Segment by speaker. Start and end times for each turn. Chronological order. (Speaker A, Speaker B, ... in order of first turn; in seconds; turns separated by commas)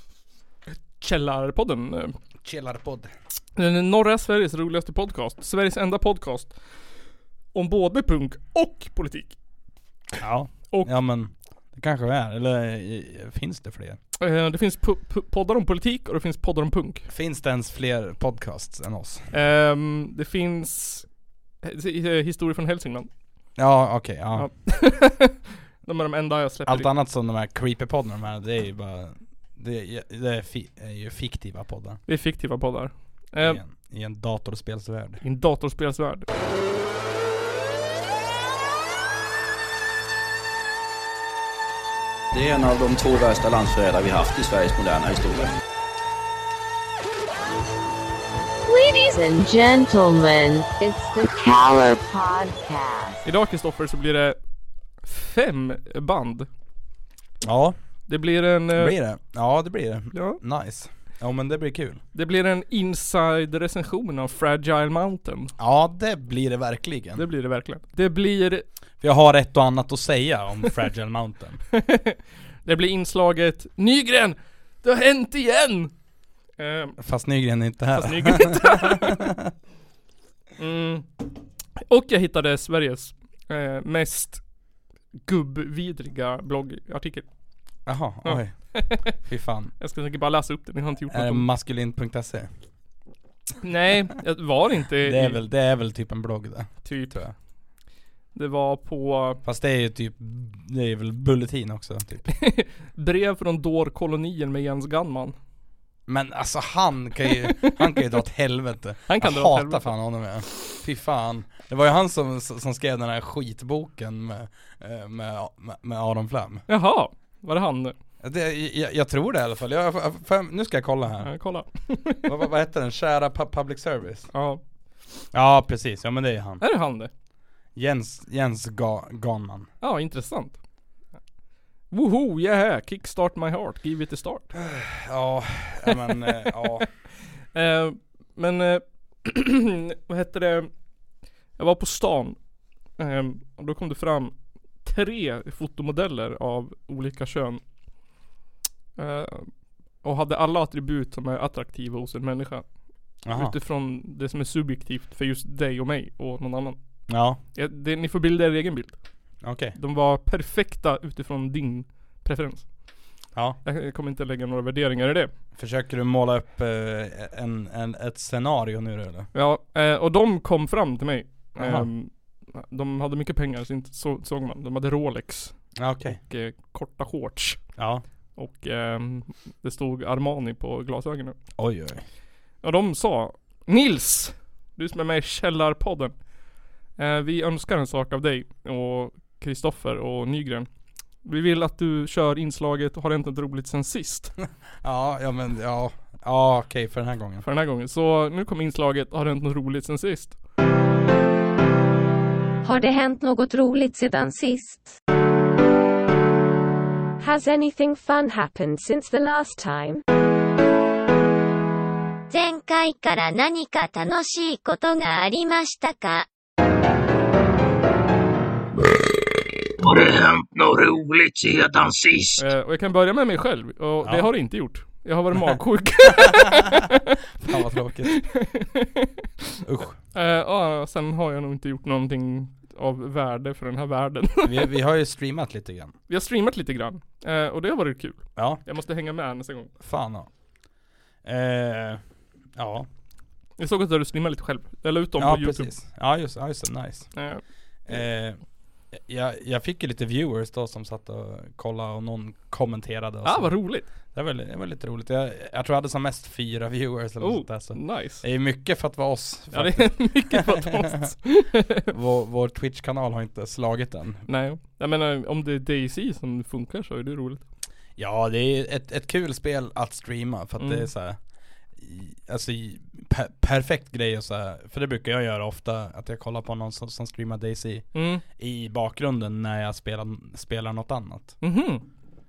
Speaker A: 0.7-2.1, Speaker B: 2.5-3.1, Speaker A: 3.6-6.5, Speaker A: 7.5-9.4, Speaker B: 10.2-14.0, Speaker A: 14.2-17.1, Speaker B: 17.1-19.3, Speaker A: 19.3-21.1, Speaker A: 21.6-23.1, Speaker B: 23.6-24.5, Speaker A: 24.4-26.9, Speaker B: 26.7-32.0, Speaker A: 32.1-33.6, Speaker B: 33.4-35.2, Speaker A: 35.2-36.3, Speaker C: 42.3-45.5, Speaker D: 48.7-53.2, Speaker A: 53.2-54.4, Speaker A: 55.0-56.5, Speaker B: 57.4-57.8, Speaker A: 58.1-59.0, Speaker B: 58.8-62.0, Speaker A: 60.1-60.4, Speaker A: 62.1-65.5, Speaker B: 65.6-67.2, Speaker A: 67.2-68.7, Speaker B: 69.0-71.6, Speaker A: 71.7-75.9, Speaker A: 76.6-77.0, Speaker B: 77.0-79.5, Speaker A: 77.9-79.2, Speaker A: 80.6-81.1, Speaker A: 81.9-84.4, Speaker A: 85.2-87.3, Speaker B: 87.9-89.7, Speaker A: 88.2-89.2, Speaker A: 89.8-91.5, Speaker B: 91.1-92.5, Speaker A: 93.6-95.4, Speaker B: 95.0-97.3, Speaker A: 96.8-97.2, Speaker A: 98.3-99.4, Speaker B: 99.4-102.3, Speaker A: 102.3-105.4, Speaker B: 106.1-116.7, Speaker A: 107.4-107.8, Speaker A: 109.1-109.9, Speaker A: 116.7-118.0, Speaker B: 118.2-121.3, Speaker A: 121.2-122.3, Speaker B: 122.2-124.3, Speaker A: 124.3-124.6, Speaker B: 125.3-126.6, Speaker A: 126.6-127.1, Speaker B: 127.8-129.7, Speaker A: 129.8-130.6, Speaker A: 131.9-134.5, Speaker B: 134.6-136.9, Speaker A: 136.2-136.5, Speaker A: 137.5-140.7, Speaker A: 141.6-142.4, Speaker A: 143.0-147.6, Speaker A: 149.0-152.7, Speaker B: 153.2-153.6, Speaker A: 153.3-156.8, Speaker B: 157.1-157.4, Speaker A: 157.5-159.0, Speaker B: 159.4-159.8, Speaker A: 159.8-162.7, Speaker B: 163.3-163.6, Speaker A: 163.6-165.3, Speaker B: 165.6-169.3, Speaker A: 169.3-177.6, Speaker B: 171.6-171.9, Speaker B: 175.8-176.2, Speaker B: 177.8-178.0, Speaker A: 178.4-181.4, Speaker B: 181.6-182.0, Speaker A: 182.6-186.2, Speaker A: 187.0-190.7, Speaker A: 191.2-194.4, Speaker B: 194.8-197.4, Speaker A: 197.4-200.4, Speaker E: 202.6-205.0, Speaker E: 207.2-210.0, Speaker F: 212.3-216.3, Speaker G: 219.8-222.5, Speaker A: 222.4-227.2, Speaker B: 224.0-224.3, Speaker B: 226.1-226.8, Speaker B: 227.4-228.2, Speaker A: 228.1-229.1, Speaker B: 229.7-230.0, Speaker A: 230.1-234.7, Speaker B: 234.4-235.9, Speaker A: 236.1-239.7, Speaker B: 238.4-238.6, Speaker B: 239.8-240.3, Speaker B: 241.2-242.0, Speaker B: 242.6-242.9, Speaker A: 243.6-245.7, Speaker B: 245.2-247.1, Speaker A: 247.1-247.4, Speaker B: 247.9-248.4, Speaker B: 248.9-253.6, Speaker A: 253.2-253.9, Speaker B: 254.1-261.1, Speaker A: 257.2-258.2, Speaker A: 259.5-261.9, Speaker B: 261.9-264.2, Speaker A: 264.3-267.4, Speaker B: 268.0-271.2, Speaker A: 270.6-270.9, Speaker B: 271.8-281.4, Speaker A: 277.9-278.2, Speaker A: 281.4-281.9